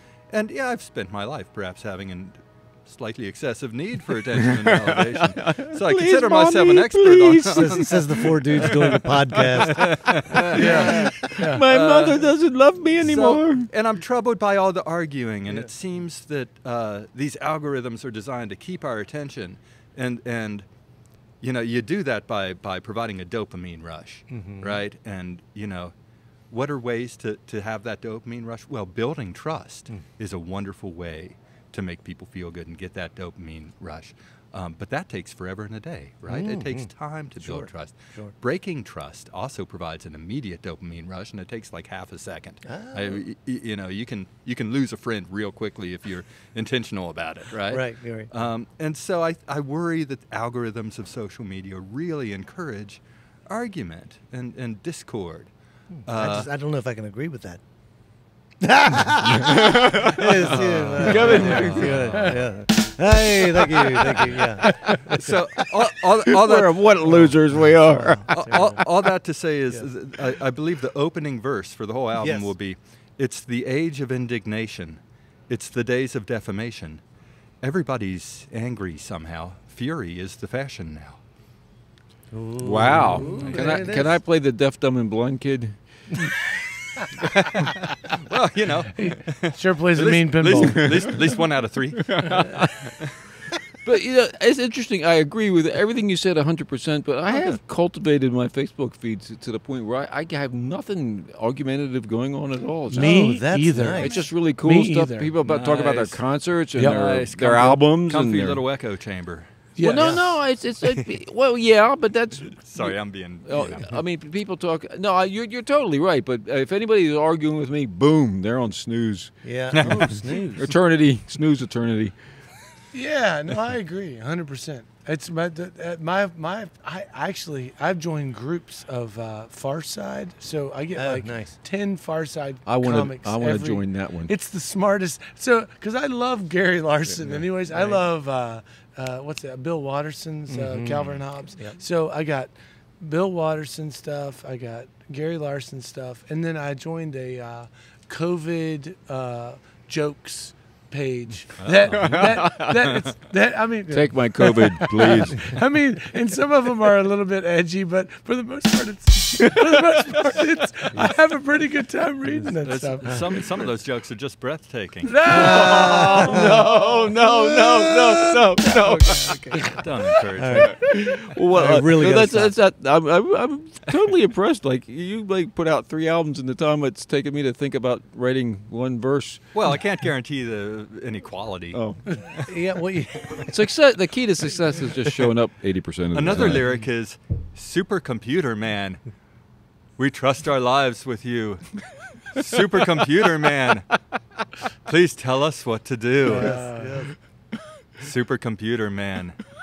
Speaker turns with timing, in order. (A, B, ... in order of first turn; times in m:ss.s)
0:00.3-0:12.3 A
0:04.4-0:13.7 B
0:07.5-0:11.0 C
0:10.5-0:11.6 D
0:13.0-0:20.7 A
0:21.4-0:25.9 A
0:24.3-0:24.8 C
0:26.5-0:55.5 A
0:36.3-0:38.3 C
0:42.6-0:43.2 C
0:47.6-0:48.3 C
0:56.0-0:57.6 C
0:56.0-0:56.5 A
0:58.6-1:05.4 C
0:59.2-1:02.2 B
1:00.4-1:02.4 A
1:03.2-1:05.3 B
1:05.1-1:07.3 A
1:06.2-1:08.3 B
1:07.0-1:08.8 C
1:08.3-1:17.0 A
1:12.2-1:12.5 C
1:17.6-1:21.2 A
1:22.3-1:24.2 C
1:22.6-1:25.8 B
1:23.2-1:23.8 A
1:27.3-1:33.1 A
1:29.0-1:30.9 D
1:30.4-1:31.3 B
1:32.0-1:33.0 B
1:33.8-1:43.3 B
1:37.3-1:37.6 A
1:42.9-1:45.3 D
1:42.9-1:44.2 C
1:43.9-1:48.6 B
1:45.4-1:46.2 A
1:46.8-1:47.0 D
1:46.8-1:49.5 A
1:49.8-1:50.3 D
1:49.8-2:02.2 B
1:50.8-1:51.1 A
1:52.6-1:54.0 A
1:59.4-2:00.7 C
1:59.7-2:00.1 A
2:02.9-2:43.4 D
2:10.9-2:11.6 C
2:12.6-2:14.3 B
2:17.7-2:18.0 C
2:20.5-2:21.8 C
2:31.6-2:32.6 A
2:31.9-2:33.0 B
2:33.9-2:35.6 B
2:39.6-2:39.9 B
2:42.6-2:45.6 A
2:45.0-2:46.6 D
2:45.2-2:49.8 B
2:45.2-2:49.8 C
2:48.9-2:50.8 A
2:50.3-2:50.8 C
2:50.6-2:59.4 B
2:51.5-2:52.5 C
2:59.5-3:02.5 A
3:01.7-3:02.0 B
3:02.5-3:03.5 C
3:03.4-3:06.6 B
3:06.1-3:09.0 A
3:10.0-3:13.9 A
3:14.8-3:16.6 A
3:16.2-3:17.0 D
3:16.2-3:17.1 C
3:18.0-3:19.4 A